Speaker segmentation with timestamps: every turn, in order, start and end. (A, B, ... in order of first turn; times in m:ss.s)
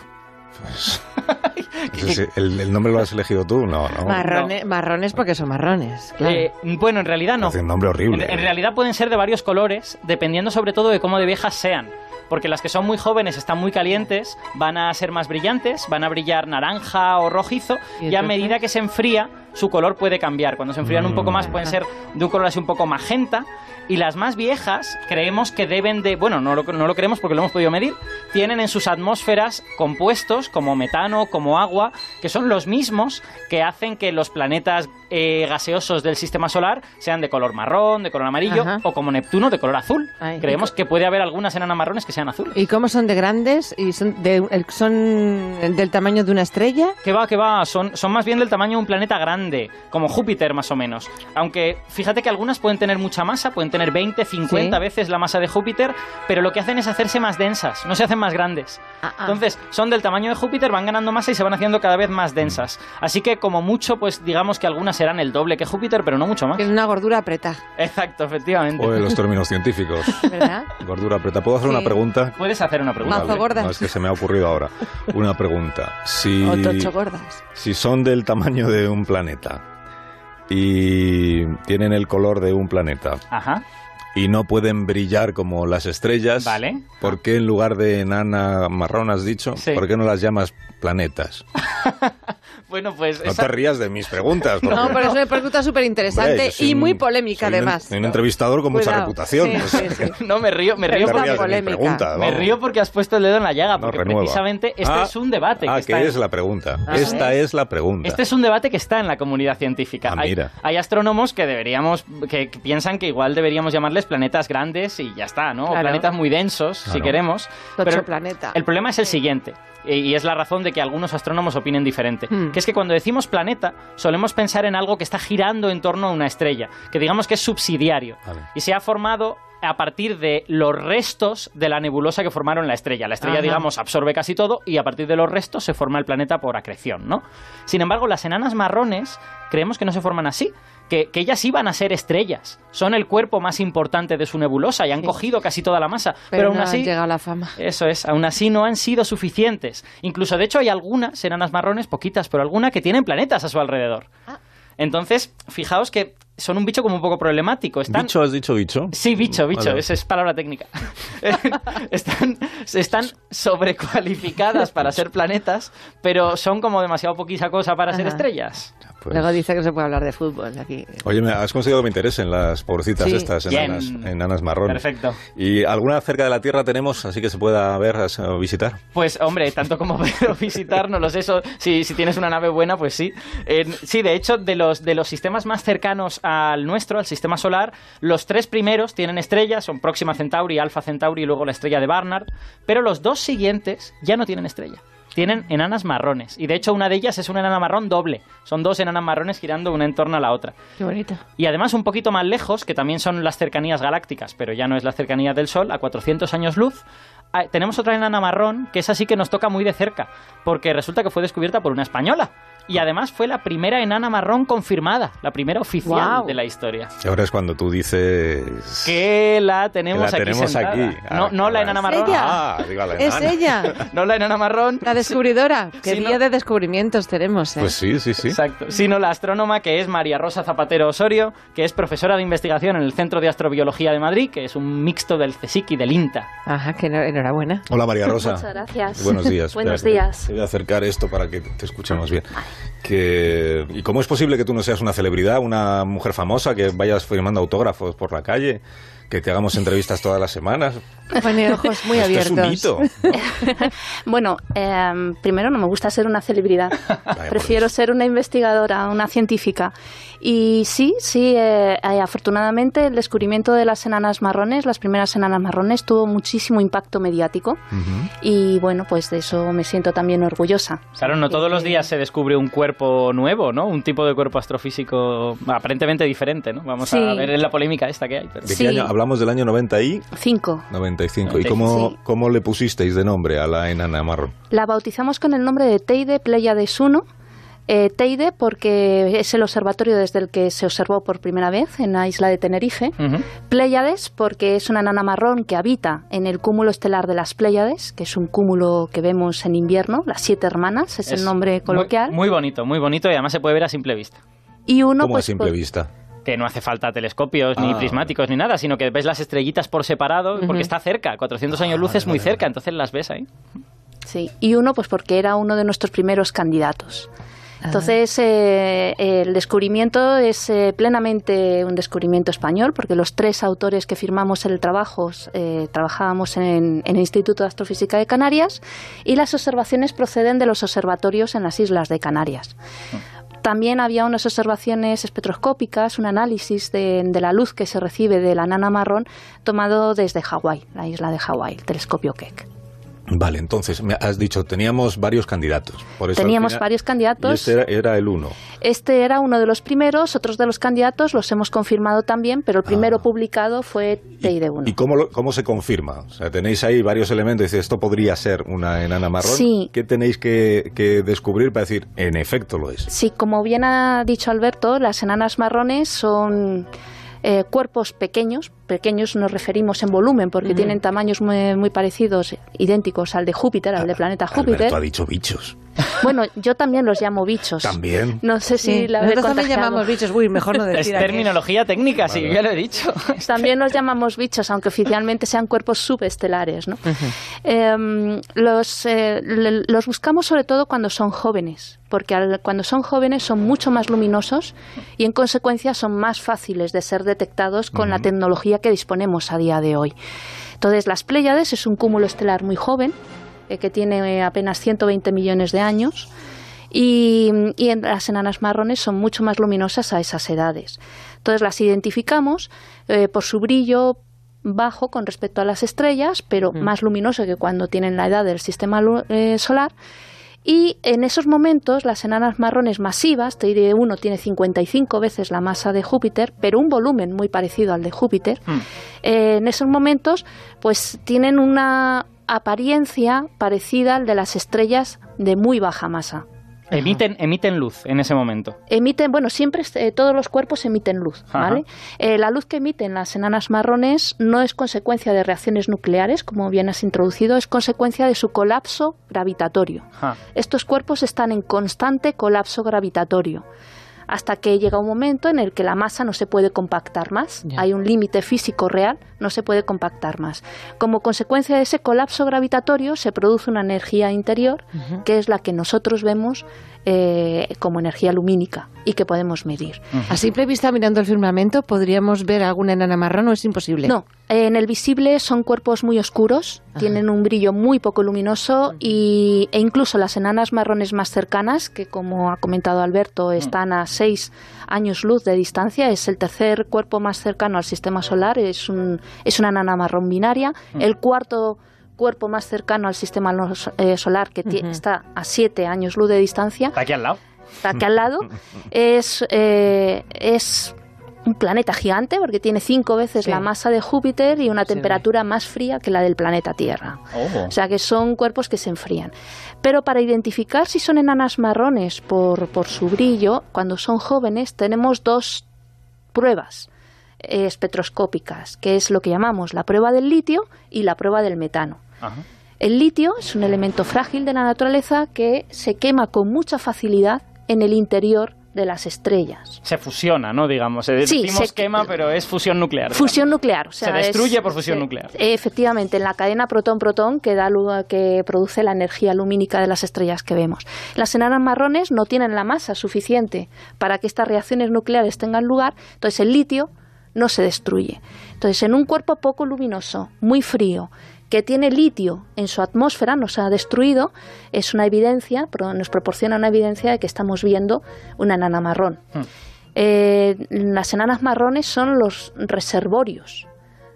0:00.6-0:01.0 A
0:01.2-0:02.2 B
0:01.9-0:04.2 A
0:04.0-0:06.5 C
0:04.2-0:04.5 B
0:06.2-0:42.6 B
0:07.4-0:08.5 A
0:18.0-0:18.5 C
0:20.8-0:21.5 A
0:38.5-0:38.8 C
0:40.2-0:40.7 C
0:42.5-0:47.0 C
0:47.0-1:06.7 B
0:54.5-0:54.8 C
0:59.0-0:59.4 C
1:06.6-1:07.6 C
1:07.8-1:09.2 B
1:08.8-1:12.4 A
1:10.3-1:10.7 C
1:11.7-1:12.0 C
1:12.4-1:13.5 B
1:13.0-1:16.9 A
1:13.1-1:13.9 C
1:16.4-1:17.4 C
1:17.6-1:19.6 A
1:20.5-1:23.2 A
1:23.3-1:23.6 B
1:24.2-1:31.4 A
1:26.4-1:26.9 B
1:31.7-1:32.1 B
1:32.7-1:33.6 B
1:33.2-1:35.2 A
1:34.4-1:35.4 B
1:34.7-1:38.0 C
1:36.1-1:40.1 A
1:38.7-1:40.2 C
1:39.5-1:41.5 B
1:40.8-1:42.1 C
1:41.0-1:42.6 A
1:42.1-1:46.2 B
1:43.8-1:48.2 A
1:46.9-1:47.3 C
1:46.9-1:47.3 B
1:48.0-2:26.9 B
1:50.0-1:50.5 A
1:55.7-1:56.1 C
1:56.9-1:57.2 A
1:57.8-1:58.6 C
2:13.2-2:13.6 C
2:26.3-2:27.6 C
2:27.6-2:34.1 B
2:34.8-2:38.2 B
2:37.9-2:39.9 A
2:38.9-2:48.7 B
2:47.9-2:48.2 C
2:49.0-2:49.4 A
2:49.1-2:51.0 C
2:51.0-2:54.8 A
2:53.0-2:53.4 C
2:53.5-2:54.1 B
2:54.6-2:55.2 B
2:55.4-2:58.8 A
2:58.9-3:20.6 B
3:20.8-3:21.2 C
3:21.4-3:26.8 B
3:27.3-3:36.9 B
3:35.8-3:36.4 C
3:37.0-3:39.0 A
3:38.8-3:42.4 B
3:39.9-3:43.8 A
3:41.9-3:43.8 C
3:43.7-3:45.2 B
3:44.8-3:47.8 C
3:45.8-3:46.2 B
3:47.6-3:48.4 A
3:48.3-3:56.3 B
3:56.5-3:57.7 C
3:57.7-4:10.8 A
3:58.1-4:00.3 D
4:11.2-4:13.1 C
4:11.9-4:13.1 A
4:13.1-4:27.6 D
4:17.1-4:17.7 A
4:27.7-4:28.1 A
4:28.2-4:31.8 D
4:31.0-4:38.5 B
4:36.8-4:37.3 D
4:38.4-4:40.1 A
4:38.5-4:38.9 D
4:40.2-4:40.7 D
4:40.7-4:44.3 A
4:41.3-4:41.6 B
4:41.6-4:42.0 D
4:44.5-4:47.0 D
4:47.7-4:53.0 D
4:53.0-4:53.3 B
4:53.5-5:02.2 D
5:01.1-5:04.2 B
5:04.7-5:05.6 D
5:05.0-5:05.9 A
5:06.3-5:13.3 B
5:07.6-5:08.1 A
5:10.4-5:10.7 C
5:11.6-5:12.4 A
5:14.0-5:17.1 D
5:17.7-5:32.6 D
5:33.4-5:42.5 D
5:43.1-5:46.6 A
5:46.1-5:47.5 D
5:47.2-5:48.4 A
5:48.6-5:54.8 D
5:52.7-5:53.0 A
5:54.2-6:02.9 A
5:59.2-5:59.7 D
6:02.9-6:06.7 D
6:07.2-6:14.8 D
6:10.5-6:10.8 C
6:13.8-6:15.6 A
6:16.0-6:20.0 D
6:17.6-6:18.2 A
6:18.6-6:21.4 C
6:20.7-6:23.5 B
6:22.0-6:22.4 A
6:23.2-6:40.0 D
6:37.7-6:38.1 A
6:40.6-6:42.9 D
6:43.5-6:46.1 D
6:46.7-6:59.7 D
7:00.4-7:08.4 D
7:09.0-7:16.2 D
7:16.7-7:18.6 B
7:18.7-7:33.4 D
7:21.3-7:21.6 B
7:34.1-7:49.8 D
7:50.1-7:53.9 C
7:53.8-8:16.8 D
8:14.5-8:14.7 C
8:16.8-8:17.2 B
8:17.6-8:20.8 D
8:21.3-8:35.5 D
8:24.7-8:25.0 C
8:27.1-8:27.5 B
8:36.1-8:36.7 D
8:37.2-8:41.8 D
8:42.6-8:49.6 D
8:49.6-8:53.2 B
8:51.0-8:51.9 D
8:52.9-9:19.0 D
8:53.8-8:55.1 B
9:19.8-9:23.5 D